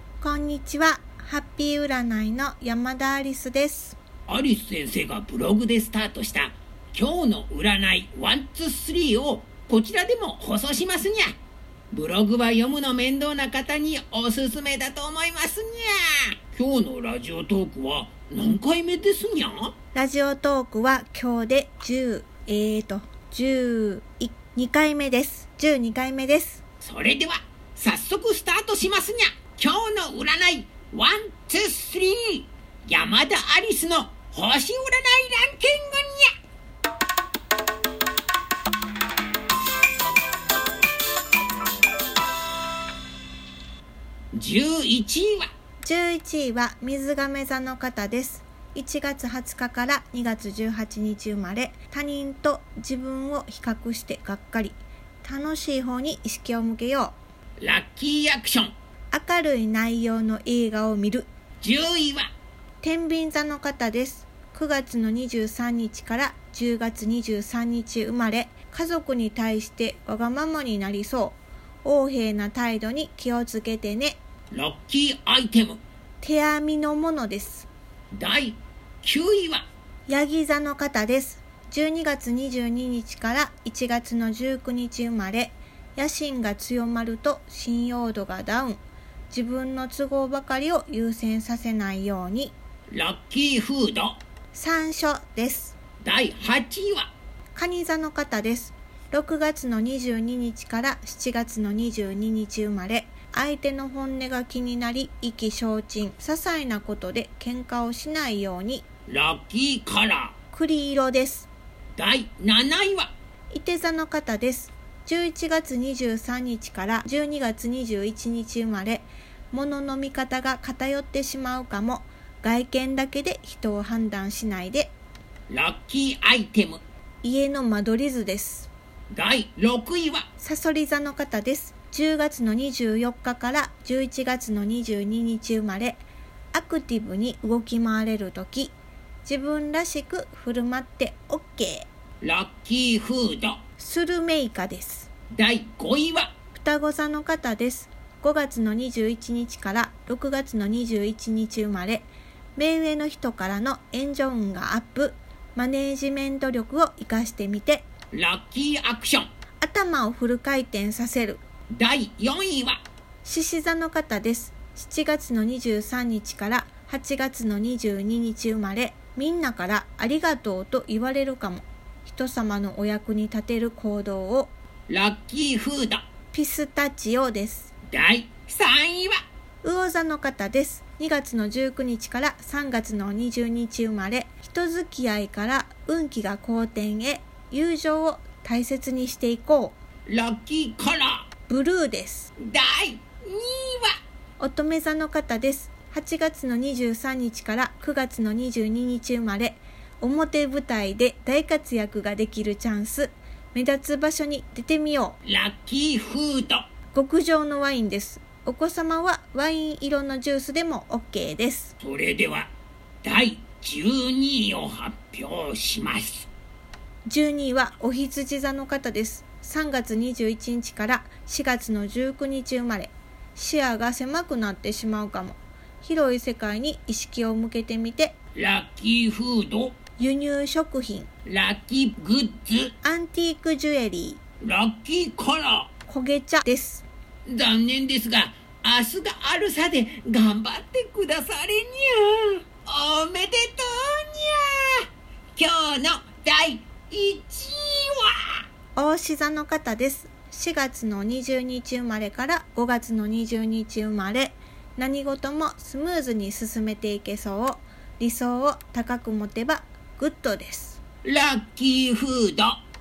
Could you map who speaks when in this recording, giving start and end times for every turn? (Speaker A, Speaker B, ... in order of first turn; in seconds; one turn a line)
Speaker A: 0.2-4.0
Speaker B: 4.3-11.3
Speaker B: 11.9-19.7
Speaker A: 19.9-26.6
Speaker B: 26.8-36.3
Speaker B: 44.3-45.5
Speaker A: 45.8-57.1
Speaker B: 57.6-58.7
Speaker A: 59.1-61.3
Speaker B: 61.6-62.3
Speaker A: 62.8-74.2
Speaker B: 74.5-75.8
Speaker A: 76.2-77.7
Speaker B: 78.1-79.7
Speaker A: 80.1-88.8
Speaker A: 89.3-92.5
Speaker B: 92.9-94.2
Speaker A: 94.5-95.7
Speaker B: 96.0-97.1
Speaker A: 97.5-108.8
Speaker B: 109.1-110.3
Speaker A: 110.5-111.5
Speaker B: 112.0-113.1
Speaker A: 113.5-124.9
Speaker B: 125.5-126.8
Speaker A: 127.2-128.7
Speaker B: 129.1-130.2
Speaker A: 130.4-136.0
Speaker A: 136.5-138.7
Speaker A: 139.2-141.9
Speaker B: 142.2-143.6
Speaker A: 143.8-145.1
Speaker B: 145.3-146.3
Speaker A: 146.5-157.8
Speaker B: 158.1-159.3
Speaker A: 159.6-161.4
Speaker B: 161.7-162.8
Speaker A: 163.2-174.5
Speaker B: 174.9-176.0
Speaker A: 176.3-177.7
Speaker B: 177.9-179.2
Speaker A: 179.6-189.7
Speaker B: 190.1-191.2
Speaker A: 191.5-192.3
Speaker B: 192.4-193.9
Speaker A: 194.4-205.2
Speaker B: 205.2-206.6
Speaker A: 206.9-211.7
Speaker B: 211.8-212.5
Speaker B: 213.0-216.3
Speaker A: 217.1-228.1
Speaker B: 228.3-229.7
Speaker A: 230.0-231.1
Speaker B: 231.2-232.7
Speaker A: 232.8-234.2
Speaker B: 234.4-235.7
Speaker A: 235.9-236.8
Speaker B: 237.2-248.4
Speaker A: 248.7-260.8
Speaker B: 261.0-262.6